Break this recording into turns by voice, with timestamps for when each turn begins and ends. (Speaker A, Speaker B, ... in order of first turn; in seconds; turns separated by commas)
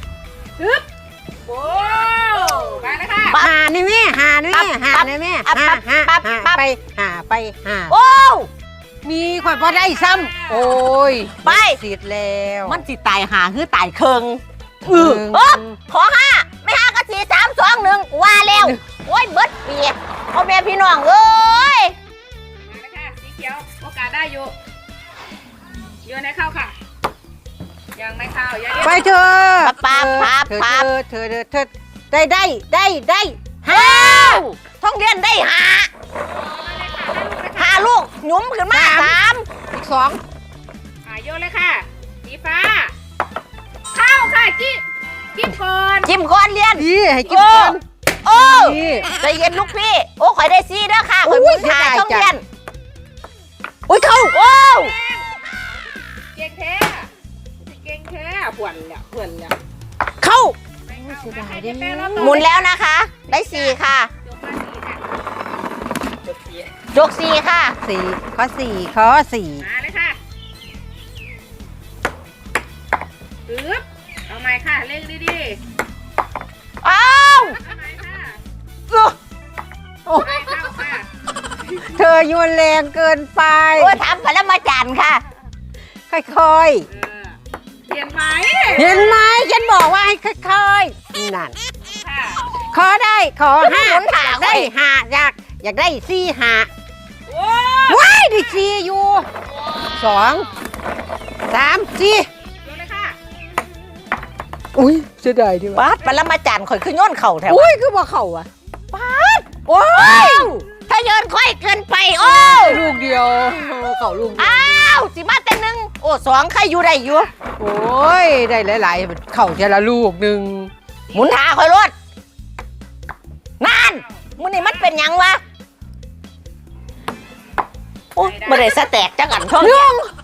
Speaker A: 0.6-0.8, Speaker A: 1.4-3.4, Speaker B: 3.4-7.9, Speaker C: 4.5-6.6, Speaker C: 7.9-8.5, Speaker B: 9.0-12.8, Speaker A: 9.4-10.8, Speaker C: 11.4-11.8, Speaker C: 12.7-21.9, Speaker B: 14.8-15.8, Speaker B: 18.5-18.8, Speaker A: 22.6-24.5, Speaker A: 26.0-26.7, Speaker A: 27.9-29.1, Speaker B: 28.8-34.5, Speaker C: 29.6-30.9, Speaker C: 33.7-35.9, Speaker A: 36.3-37.9, Speaker C: 37.5-39.5, Speaker B: 38.7-40.2, Speaker A: 41.0-42.9, Speaker A: 43.9-44.8, Speaker A: 45.3-46.1, Speaker C: 46.0-52.4, Speaker B: 46.8-49.1, Speaker B: 51.2-52.4, Speaker C: 53.9-54.9, Speaker A: 54.5-55.3, Speaker A: 56.3-57.1, Speaker A: 57.6-59.5, Speaker B: 60.2-62.5, Speaker A: 60.8-62.5, Speaker C: 62.2-64.1, Speaker A: 63.3-65.0, Speaker C: 66.9-67.8, Speaker B: 67.8-69.7, Speaker A: 69.6-70.2, Speaker A: 73.5-75.6, Speaker C: 76.8-77.6, Speaker A: 77.5-78.4, Speaker B: 80.0-80.6, Speaker A: 80.2-81.1, Speaker B: 81.8-84.0, Speaker C: 83.8-85.2, Speaker B: 86.1-86.9, Speaker A: 86.9-89.2, Speaker B: 88.7-91.5, Speaker A: 92.0-92.4, Speaker B: 92.7-96.7, Speaker C: 93.6-94.7, Speaker A: 97.3-98.1, Speaker B: 97.9-99.2, Speaker B: 99.9-100.5, Speaker B: 101.5-102.3, Speaker A: 102.6-103.2, Speaker B: 104.7-105.8, Speaker C: 105.7-107.7, Speaker B: 107.5-108.5, Speaker C: 108.9-112.8, Speaker B: 109.7-110.6, Speaker B: 112.2-115.0, Speaker C: 114.4-117.3, Speaker B: 117.6-120.7, Speaker C: 121.1-121.9, Speaker C: 123.6-125.4, Speaker A: 123.8-124.8, Speaker C: 128.1-129.9, Speaker A: 128.2-128.8, Speaker B: 129.6-130.1